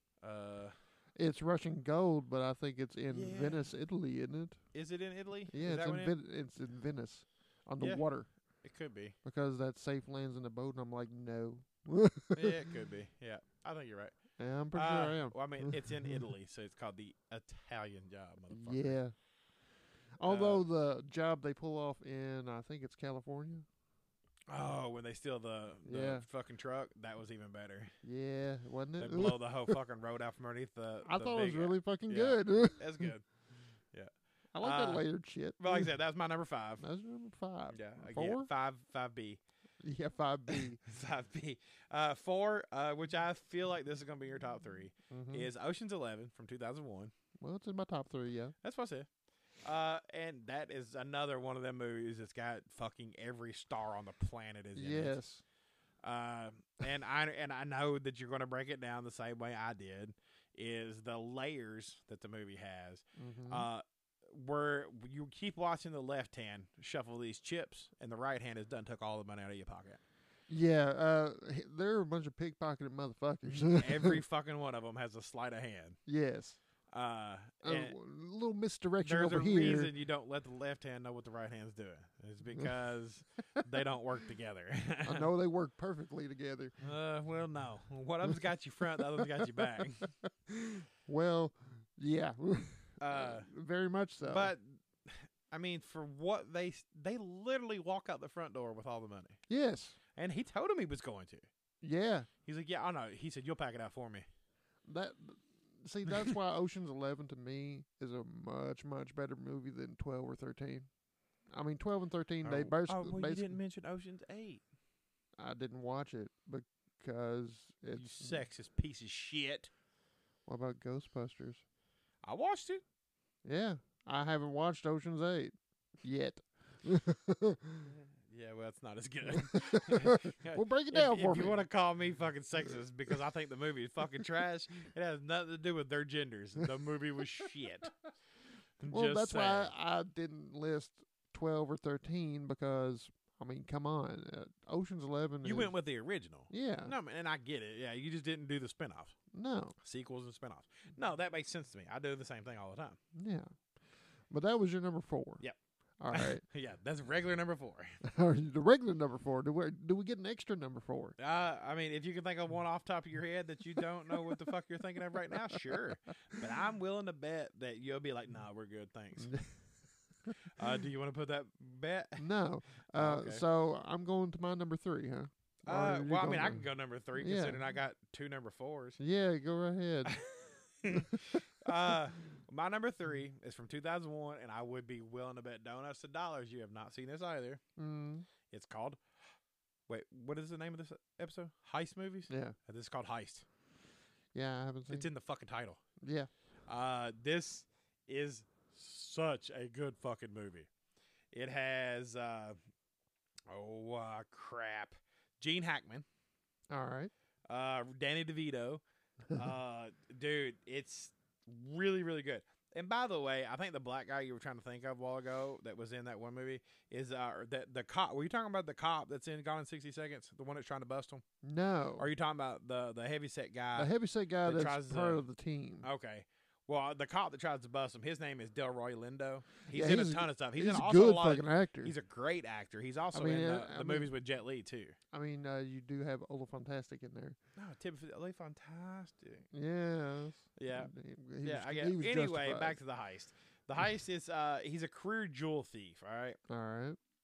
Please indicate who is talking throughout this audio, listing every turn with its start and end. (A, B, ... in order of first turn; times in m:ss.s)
0:00.2-0:00.8 A
0:01.2-0:04.6 B
0:03.1-0:03.7 A
0:04.7-0:06.2 A
0:05.5-0:08.3 B
0:07.8-0:08.0 A
0:08.6-0:09.2 A
0:09.2-0:12.6 B
0:12.4-0:14.2 A
0:14.4-0:16.3 B
0:14.7-0:19.0 A
0:18.5-0:19.1 B
0:20.2-0:23.7 B
0:20.2-0:20.6 A
0:24.5-0:28.0 A
0:25.8-0:26.2 B
0:28.0-0:29.8 B
0:29.0-0:33.3 A
0:31.0-0:33.1 B
0:33.9-0:35.0 A
0:34.6-0:35.9 B
0:35.6-0:36.8 A
0:36.8-0:38.5 B
0:37.7-0:39.4 A
0:39.8-0:40.8 B
0:40.5-0:47.1 A
0:45.1-0:45.5 B
0:47.4-0:48.6 B
0:48.6-0:49.1 A
0:49.6-0:55.2 A
0:54.8-0:55.4 B
0:56.0-1:10.0 A
1:03.2-1:03.7 B
1:10.5-1:14.2 B
1:13.5-1:16.0 A
1:16.1-1:16.6 B
1:16.9-1:18.0 A
1:17.6-1:19.9 B
1:19.0-1:25.3 A
1:25.0-1:26.8 B
1:26.8-1:30.1 A
1:28.9-1:34.5 B
1:33.0-1:33.5 A
1:34.2-1:39.4 A
1:39.5-1:40.0 B
1:40.2-1:41.5 A
1:41.8-1:42.3 B
1:42.5-1:44.3 A
1:44.9-1:50.9 B
1:51.5-1:53.6 B
1:52.4-1:54.6 A
1:55.4-1:58.4 B
1:57.9-1:59.7 A
2:00.5-2:01.6 B
2:02.2-2:02.8 A
2:03.4-2:07.9 B
2:07.9-2:17.9 A
2:09.3-2:11.6 B
2:18.8-2:19.7 A
2:18.8-2:25.7 B
2:25.4-2:29.2 A
2:26.5-2:26.9 B
2:29.3-2:29.8 B
2:29.8-2:33.0 A
2:33.2-2:33.6 B
2:34.3-2:35.4 B
2:36.0-2:36.4 B
2:36.1-2:37.9 A
2:38.0-2:41.2 B
2:41.2-2:49.3 A
2:49.2-2:49.6 B
2:50.6-2:52.2 A
2:52.2-2:57.6 B
2:52.9-2:53.4 A
2:55.7-2:59.0 A
2:59.0-3:00.2 B
3:00.1-3:07.6 A
3:00.9-3:01.7 B
3:07.8-3:08.3 B
3:08.5-3:09.0 A
3:09.9-3:13.4 A
3:12.3-3:12.6 B
3:14.3-3:15.1 B
3:14.9-3:15.8 A
3:16.0-3:16.3 B
3:16.7-3:20.7 A
3:21.3-3:22.6 A
3:23.5-3:26.1 A
3:26.7-3:27.1 B
3:27.5-3:28.8 A
3:29.3-3:41.2 A
3:41.4-3:42.1 B
3:42.0-3:43.9 A
3:43.8-3:45.9 B
3:44.4-3:45.2 A
3:45.8-3:55.0 A
3:49.7-3:51.9 B
3:53.1-3:54.1 B
3:55.1-3:57.4 B
3:57.6-3:59.5 A
3:59.5-4:02.8 B
4:00.6-4:00.9 A
4:01.4-4:06.4 A
4:06.5-4:07.0 B